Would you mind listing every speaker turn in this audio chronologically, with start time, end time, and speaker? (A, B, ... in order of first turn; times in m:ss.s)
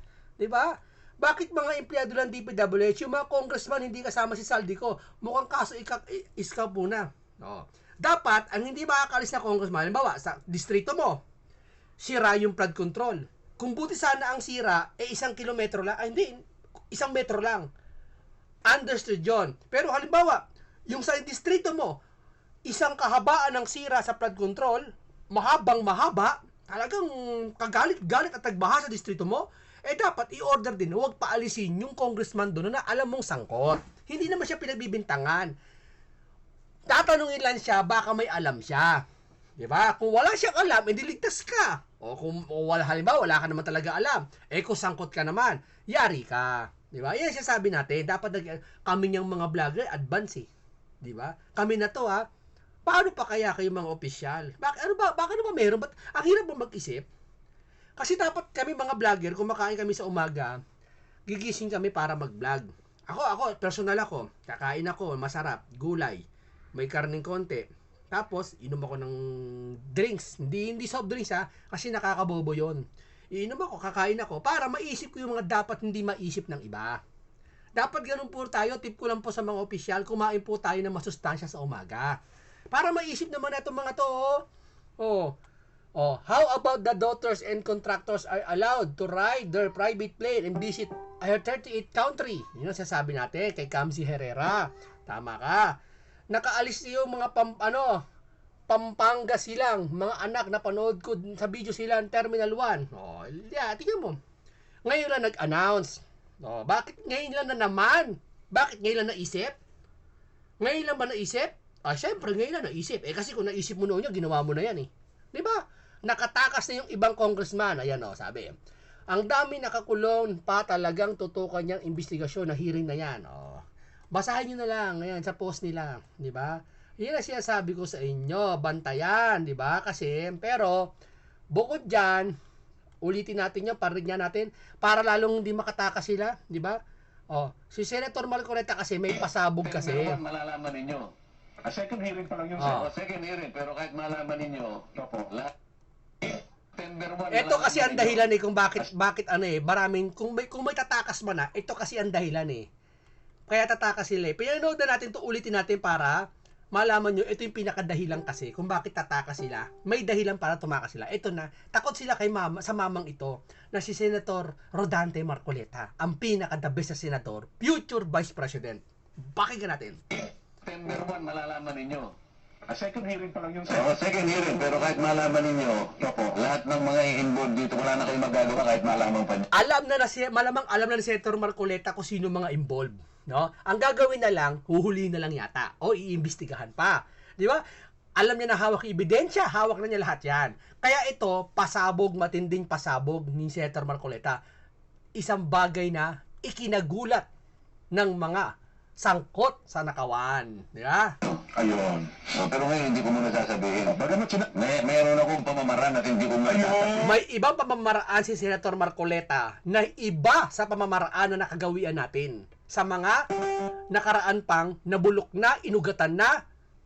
0:00.4-0:11.2 A
0:12.0-0:16.4 A
0:16.9-0:17.7 A
0:18.7-0:22.0 A
0:22.7-0:35.5 A
0:36.9-0:39.0 A
0:39.6-0:50.5 A
0:51.0-0:52.2 A
0:52.9-0:57.1 A
0:58.0-1:00.6 A
1:01.3-1:06.2 A
1:06.8-1:17.0 A
1:17.8-1:22.2 A
1:22.7-1:24.4 A
1:25.0-1:25.3 A
1:26.0-1:35.7 A
1:36.3-1:38.0 A
1:38.7-1:44.2 A
1:44.8-1:49.5 A
1:50.6-1:58.5 A
1:59.1-2:10.9 A
2:11.5-2:12.3 A
2:13.0-2:16.8 A
2:17.3-2:20.2 A
2:19.6-2:21.1 B
2:21.6-2:22.8 C
2:22.6-2:22.9 A
2:22.6-2:25.5 B
2:25.0-2:25.3 C
2:26.8-2:28.2 B
2:27.3-2:32.7 A
2:33.5-2:50.0 A
2:50.6-2:52.1 B
2:52.7-2:53.9 C
2:53.7-2:59.5 B
2:56.0-2:56.3 C
2:59.5-3:07.6 A
3:08.2-3:14.4 A
3:15.2-3:17.3 A
3:17.9-3:21.1 A
3:21.3-3:24.0 B
3:23.9-3:24.5 C
3:24.6-3:27.0 B
3:26.5-3:27.0 C
3:27.0-3:33.2 A
3:33.9-3:36.4 A